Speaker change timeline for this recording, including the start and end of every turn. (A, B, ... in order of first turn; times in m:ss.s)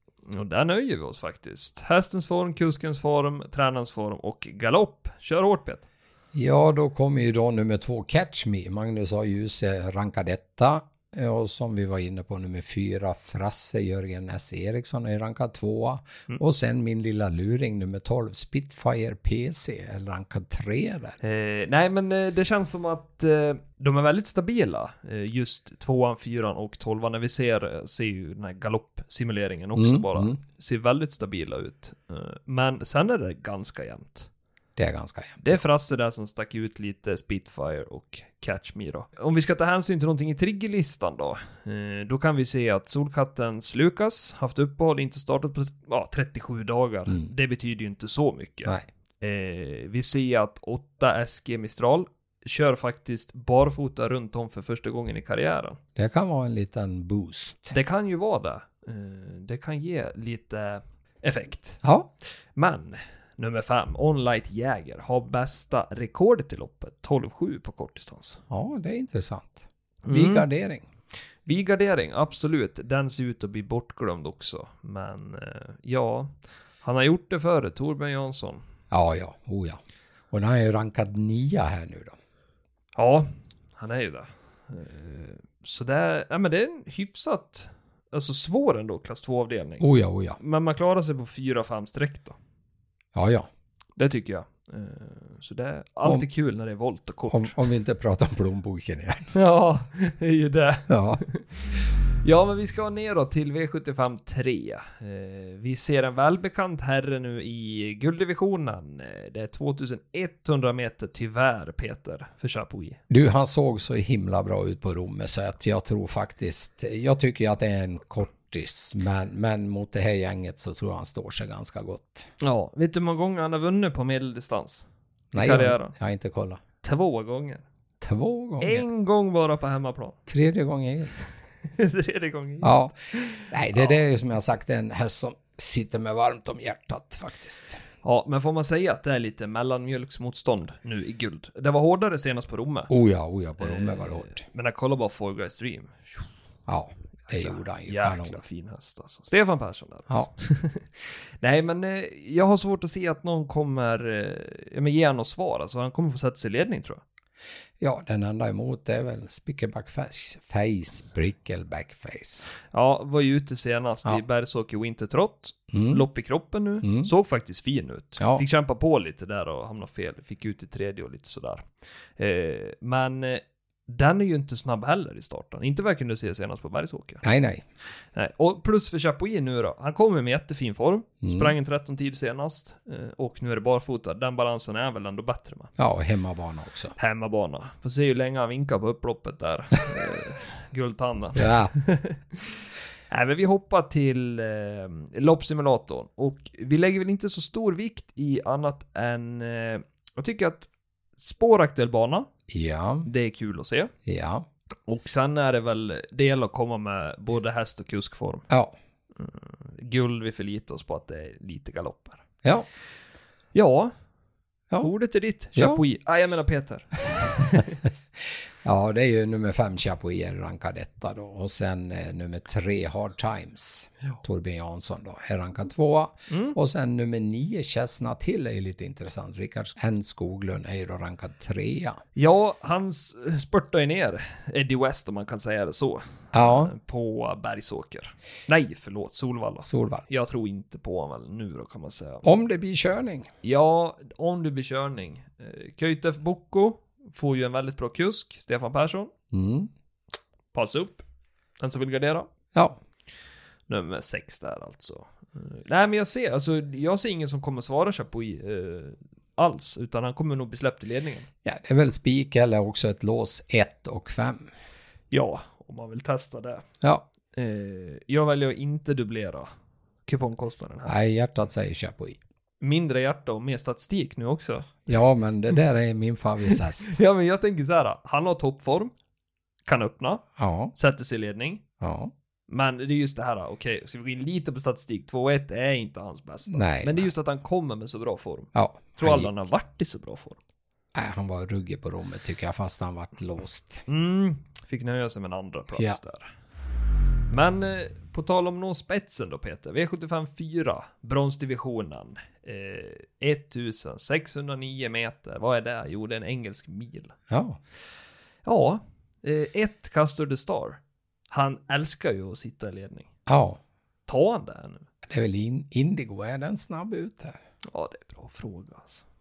0:00.3-0:05.9 A
0:06.3-0:21.2 B
0:21.2-0:34.3 A
0:29.8-0:30.4 B
0:34.8-0:35.6 B
0:35.4-0:55.8 A
0:56.0-0:57.7 B
0:57.7-1:01.8 A
1:01.8-1:02.1 B
1:02.6-1:08.4 A
1:08.5-1:10.8 B
1:10.0-1:10.5 A
1:11.5-1:16.3 A
1:16.8-1:18.6 A
1:18.9-1:19.8 B
1:20.3-1:22.2 B
1:23.0-1:29.8 A
1:29.8-1:30.4 B
1:30.4-1:32.4 A
1:33.1-1:33.5 B
1:34.0-1:37.6 A
1:37.3-1:39.3 B
1:39.3-1:53.0 A
1:40.9-1:41.2 B
1:53.1-2:02.3 B
2:02.4-2:05.9 A
2:05.3-2:06.6 B
2:06.8-2:07.6 A
2:08.0-2:08.9 B
2:08.6-2:10.2 A
2:10.3-2:11.1 B
2:11.7-2:14.0 A
2:12.6-2:17.8 B
2:18.0-2:22.9 A
2:22.9-2:24.4 B
2:23.6-2:26.3 A
2:26.7-2:28.4 B
2:27.3-2:37.0 A
2:37.8-2:42.5 B
2:42.7-2:57.2 A
2:45.7-2:46.0 B
2:46.8-2:47.1 B
2:48.2-2:48.4 B
2:57.2-2:57.6 B
2:58.1-3:05.7 A
3:01.2-3:01.6 B
3:05.8-3:07.0 B
3:07.0-3:22.3 A
3:11.4-3:11.7 B
3:22.5-3:23.1 B
3:23.0-3:23.9 A
3:24.1-3:24.5 B
3:24.9-3:28.5 A
3:28.5-3:28.8 B
3:29.2-3:32.2 A
3:33.5-3:33.9 A
3:34.8-3:37.8 A
3:35.6-3:35.8 B
3:38.2-3:52.0 B
3:46.3-3:46.6 A
3:52.2-4:02.4 A
3:56.3-3:56.7 B
3:59.6-4:00.0 B
4:02.2-4:03.3 B
4:03.4-4:09.1 A
4:09.3-4:09.7 B
4:10.5-4:11.0 A
4:11.6-4:12.3 A
4:13.7-4:21.3 A
4:21.4-4:24.5 B
4:25.1-4:26.6 A
4:27.3-4:29.5 A
4:30.1-4:31.0 A
4:30.9-4:32.2 B
4:32.6-4:34.9 A
4:34.9-4:37.0 B
4:36.8-4:38.9 A
4:39.6-4:41.6 A
4:40.4-4:40.7 B
4:41.8-4:42.1 B
4:42.5-4:50.4 A
4:46.5-4:47.1 B
4:48.6-4:49.3 B
4:50.9-4:53.8 B
4:53.9-4:56.3 A
4:55.7-4:56.0 B
4:57.3-5:07.1 A
5:07.3-5:07.6 B
5:08.4-5:10.8 A
5:11.3-5:13.1 A
5:13.3-5:13.6 B
5:14.1-5:14.9 A
5:15.1-5:17.4 B
5:17.6-5:19.0 A